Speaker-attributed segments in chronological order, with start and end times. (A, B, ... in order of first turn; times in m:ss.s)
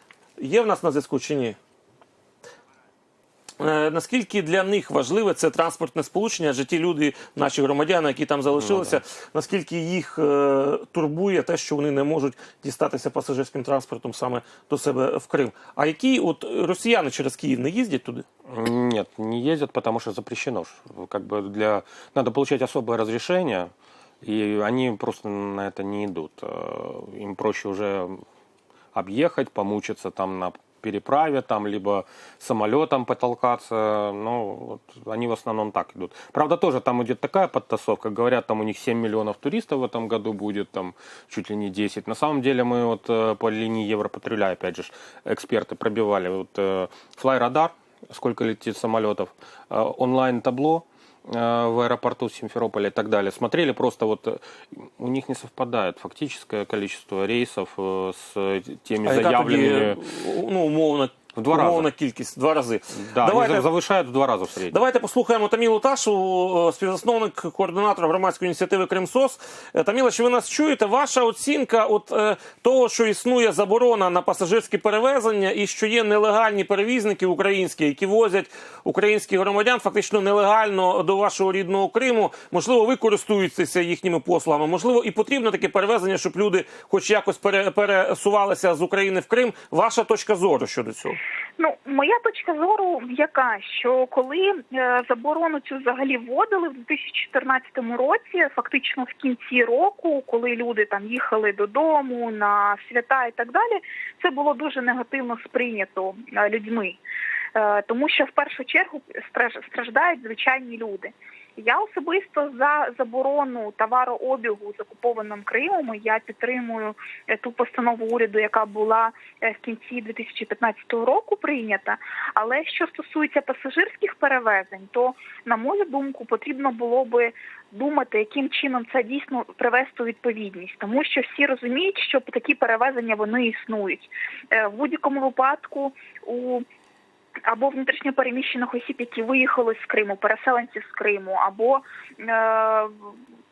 0:00.4-0:01.6 A
0:03.6-0:18.2 A
0:08.6-0:09.0 B
0:18.5-0:23.7 B
0:24.2-0:28.2 B
0:28.9-1:00.0 B
0:59.0-1:03.7 A
1:01.4-1:01.9 B
1:02.9-1:04.8 B
1:04.7-1:31.2 A
1:31.6-1:47.0 C
1:47.6-2:16.6 C
2:17.5-2:23.1 C